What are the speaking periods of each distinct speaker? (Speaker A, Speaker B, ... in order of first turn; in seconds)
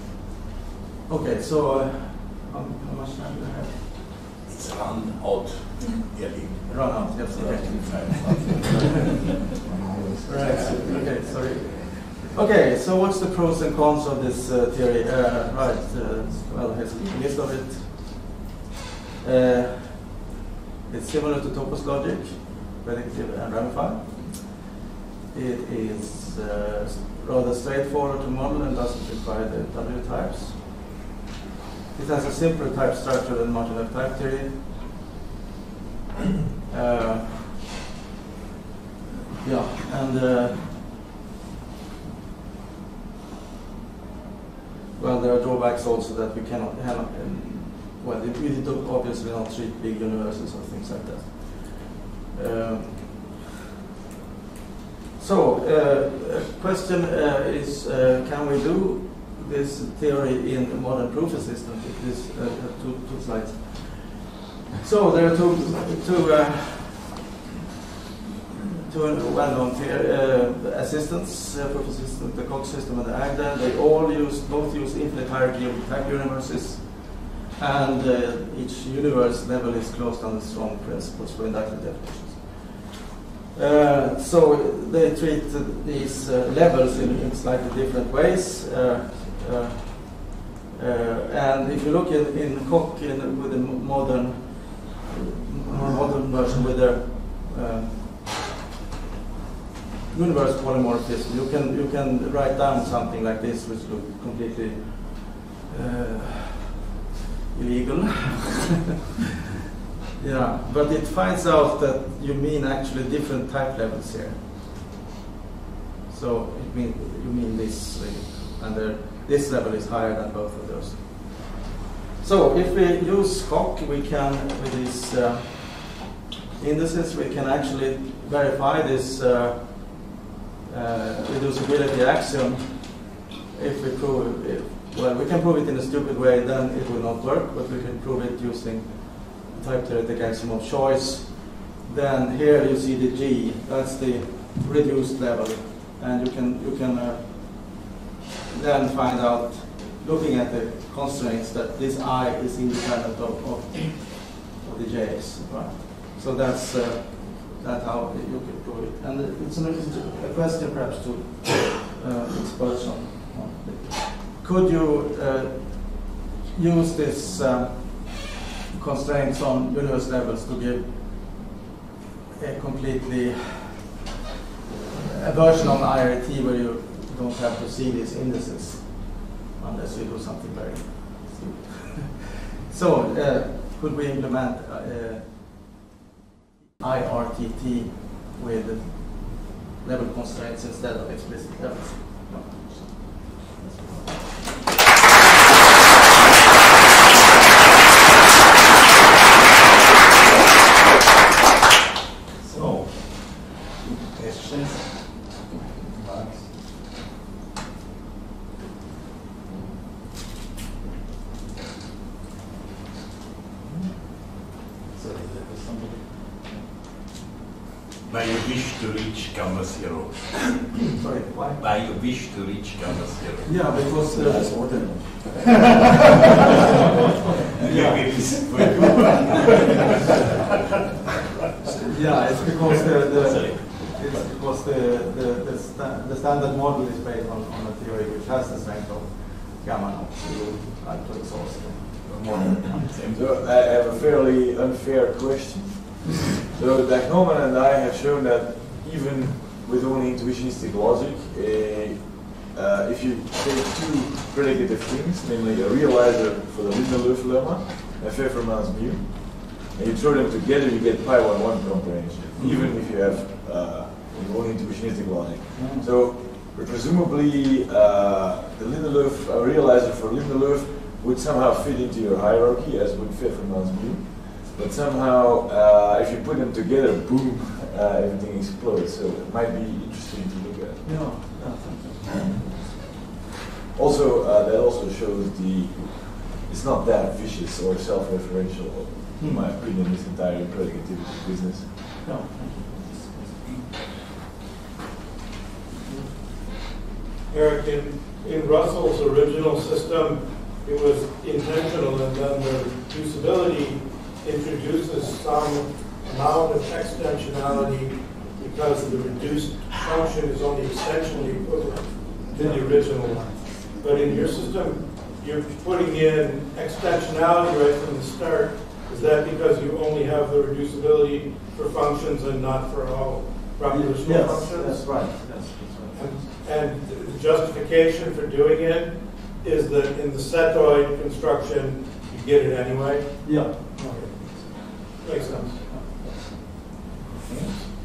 Speaker A: 1.1-4.5, 6.7-9.2, 10.2-18.3, 19.2-20.2, 20.9-24.7, 25.3-30.9, 31.9-34.7, 36.7-37.6, 39.4-41.0, 45.0-53.3, 55.1-67.2, 68.8-98.1, 100.1-106.6, 107.5-108.7, 110.2-114.5, 116.1-121.6, 122.2-126.0, 126.6-130.1, 130.7-147.8, 148.5-171.5, 172.4-173.9, 174.9-185.6, 186.8-193.8, 221.0-221.6, 223.4-225.3, 227.6-228.6, 231.8-242.7, 262.4-263.2, 265.5-265.9, 280.8-283.0, 289.2-289.5, 292.0-293.8, 312.3-313.4, 323.6-326.0, 333.2-336.4
Speaker B: 4.5-9.1, 218.0-220.8, 221.6-223.5, 227.6-229.7, 232.1-234.2, 242.1-243.4
Speaker C: 224.0-225.8, 243.0-280.8, 283.7-291.7
Speaker D: 297.3-325.3, 325.9-335.7